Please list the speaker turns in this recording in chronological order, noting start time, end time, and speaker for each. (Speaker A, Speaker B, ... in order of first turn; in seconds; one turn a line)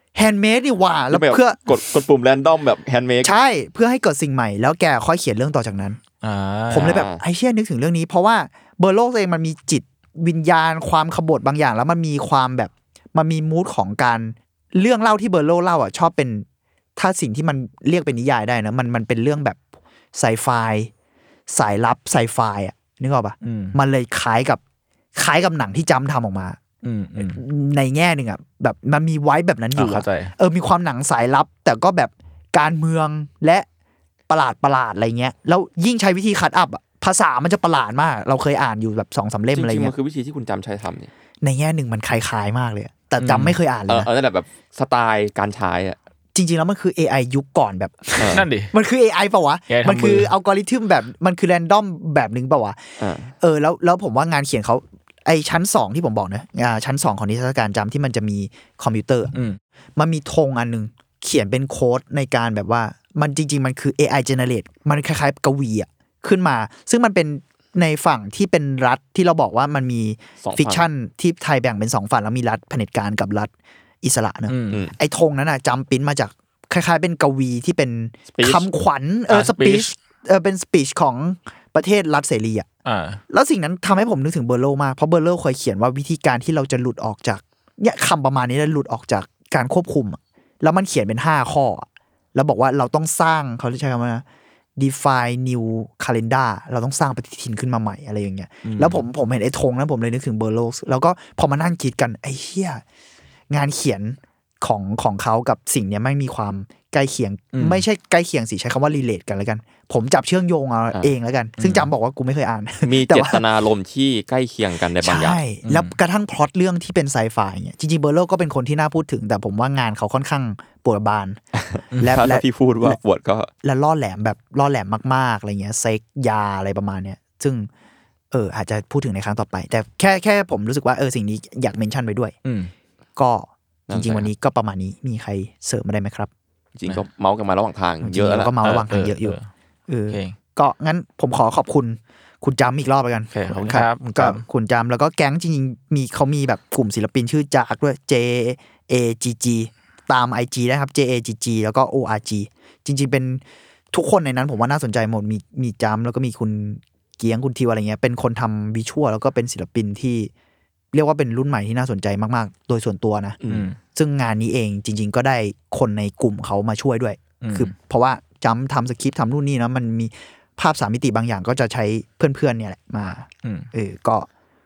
Speaker A: 0.1-1.6
Speaker B: 1.1-3.3
Speaker A: 3.2-6.0
Speaker C: 6.2-7.0
Speaker A: 6.7-19.6
Speaker B: 6.8-7.2
Speaker A: 20.1-20.9
Speaker A: 21.5-24.6
Speaker C: 23.4-23.8
Speaker A: 25.1-26.6
Speaker C: 26.8-27.4
Speaker A: 27.2-33.6
Speaker C: 29.8-30.3
Speaker A: 34.3-39.9
Speaker B: 39.5-41.1
Speaker A: 41.4-44.1
Speaker C: 43.2-43.6
Speaker B: 43.9-46.0
Speaker A: 46.3-52.9
Speaker B: 48.2-48.5
Speaker C: 48.3-48.7
Speaker C: 49.7-50.3
Speaker B: 53.0-53.3
Speaker A: 53.4-59.3
Speaker C: 59.3-59.6
Speaker A: 60.0-82.7
Speaker B: 70.4-70.8
Speaker C: 74.5-74.8
Speaker B: 78.3-78.7
Speaker C: 79.3-79.9
Speaker C: 82.8-83.2
Speaker A: 83.3-94.2
Speaker A: 94.8-102.8
Speaker C: 98.6-99.0
Speaker A: 103.5-113.4
Speaker C: 107.5-107.8
Speaker C: 111.6-111.9
Speaker B: 112.8-115.4
Speaker A: 115.0-121.4
Speaker C: 115.6-115.9
Speaker B: 121.5-123.5
Speaker A: 122.0-123.0
Speaker A: 123.6-127.7
Speaker A: 128.3-132.3
Speaker C: 132.4-132.7
Speaker A: 133.2-136.3
Speaker B: 133.9-134.3
Speaker B: 136.8-138.5
Speaker A: 138.0-139.3
Speaker C: 138.6-139.5
Speaker A: 139.9-160.3
Speaker C: 140.1-140.3
Speaker C: 143.3-144.4
Speaker A: 160.9-163.4
Speaker B: 163.4-163.7
Speaker C: 163.5-163.8
Speaker A: 163.9-174.3
Speaker C: 167.4-167.7
Speaker C: 173.4-173.7